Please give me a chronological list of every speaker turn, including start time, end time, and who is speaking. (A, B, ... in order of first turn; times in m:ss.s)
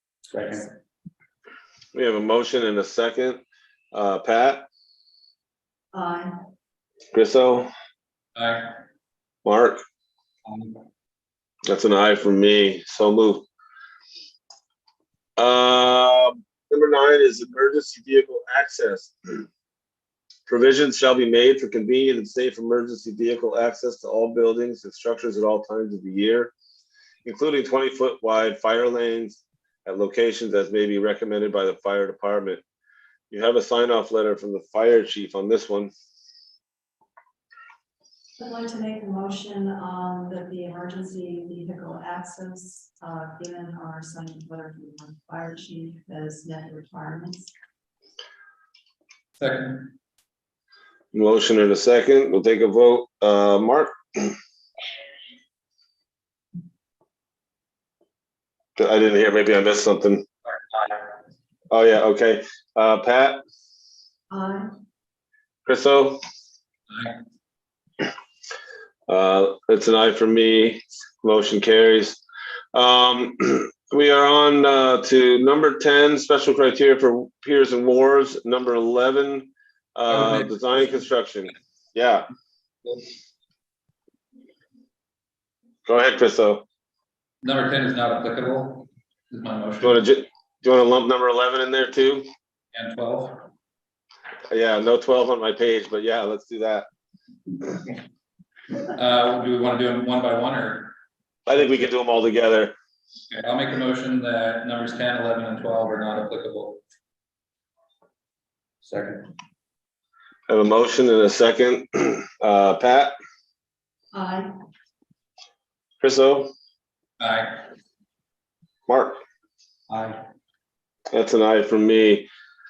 0:00.3-0:00.6 A
0:01.9-0:04.7 B
0:05.9-0:06.3 C
0:07.1-0:07.7 B
0:08.4-0:08.7 A
0:09.4-0:09.8 B
0:10.5-0:10.8 A
0:11.7-0:13.5 B
0:15.4-0:19.4 B
0:20.5-0:26.5 B
0:27.2-0:32.6 B
0:33.3-0:35.9 B
0:38.4-0:47.5 C
0:49.4-0:49.9 A
0:51.1-0:54.4 B
0:58.8-1:00.2 B
1:01.7-1:03.4 B
1:04.3-1:04.7 C
1:05.7-1:06.2 B
1:06.9-1:07.2 A
1:09.1-1:12.2 B
1:12.7-1:22.3 B
1:20.1-1:21.1 A
1:25.9-1:26.6 B
1:27.4-1:30.0 A
1:29.8-1:32.3 B
1:32.7-1:33.4 A
1:34.5-1:36.9 B
1:38.9-1:41.0 A
1:41.5-1:42.8 B
1:43.3-1:46.8 A
1:48.8-1:49.3 A
1:50.5-1:53.1 B
1:54.1-1:54.5 C
1:56.0-1:56.5 B
1:57.2-1:57.6 A
1:58.9-1:59.2 B
1:59.9-2:00.2 A
2:01.1-2:02.3 B